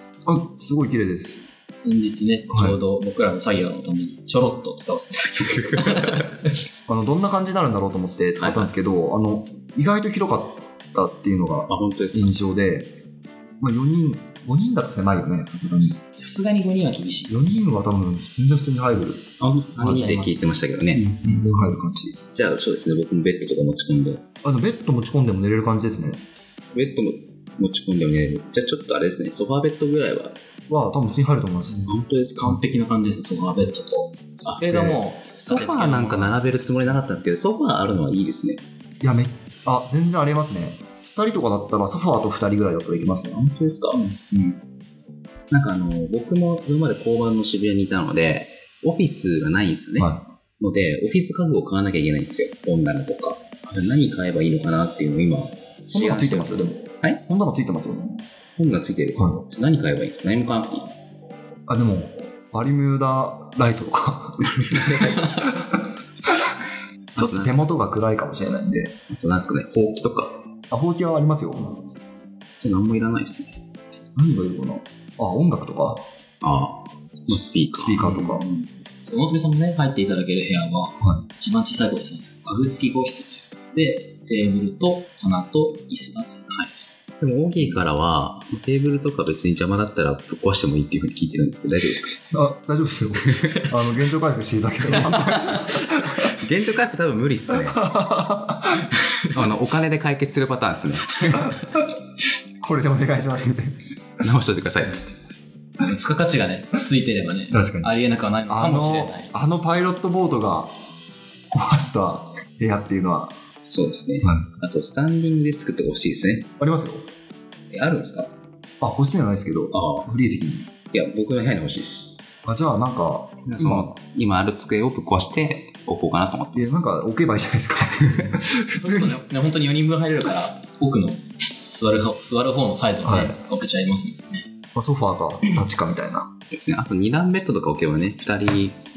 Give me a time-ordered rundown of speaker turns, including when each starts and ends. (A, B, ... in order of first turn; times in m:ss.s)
0:00.2-0:01.5 A
0:01.7-0:06.3 B
0:02.5-0:02.8 A
0:05.4-0:06.3 C
0:06.9-0:13.0 A
0:08.4-0:08.7 C
0:11.7-0:12.4 C
0:13.6-0:16.0 A
0:16.1-0:17.5 B
0:17.3-0:20.1 A
0:19.4-0:21.1 C
0:19.8-0:21.5 B
0:21.2-0:22.2 A
0:22.3-0:24.2 C
0:24.4-0:26.2 A
0:26.7-0:30.4 C
0:30.7-0:31.9 A
0:31.8-0:32.4 C
0:32.2-0:36.4 B
0:34.6-0:35.0 A
0:35.4-0:38.6 C
0:39.0-0:43.5 A
0:43.6-0:44.0 C
0:43.9-0:44.6 B
0:45.5-0:57.2 C
0:50.0-0:50.2 A
0:55.9-0:58.2 A
0:58.6-1:00.9 C
0:59.1-0:59.4 A
1:01.7-1:05.8 A
1:04.4-1:05.4 C
1:07.1-1:07.7 C
1:07.2-1:09.0 A
1:09.1-1:10.4 C
1:10.7-1:11.8 A
1:12.6-1:13.5 C
1:14.2-1:16.0 A
1:16.4-1:18.6 C
1:17.3-1:18.5 A
1:19.0-1:26.7 B
1:27.2-1:32.2 C
1:32.3-1:36.3 A
1:33.4-1:33.7 C
1:35.0-1:35.6 C
1:36.3-1:37.8 C
1:37.6-1:39.0 A
1:39.3-1:41.6 C
1:42.6-1:43.8 A
1:44.2-1:45.2 C
1:45.8-1:49.3 B
1:47.5-1:47.9 A
1:48.5-1:50.7 A
1:51.5-1:53.3 A
1:53.7-1:56.5 C
1:54.2-1:54.5 A
1:56.6-1:57.0 A
1:57.7-1:58.3 C
1:58.8-2:00.7 A
1:59.7-2:00.1 C
2:00.9-2:02.2 C
2:02.4-2:03.9 A
2:03.5-2:06.8 C
2:06.5-2:09.2 A
2:08.6-2:14.4 B
2:13.0-2:13.4 A
2:14.7-2:16.3 A
2:16.5-2:18.8 C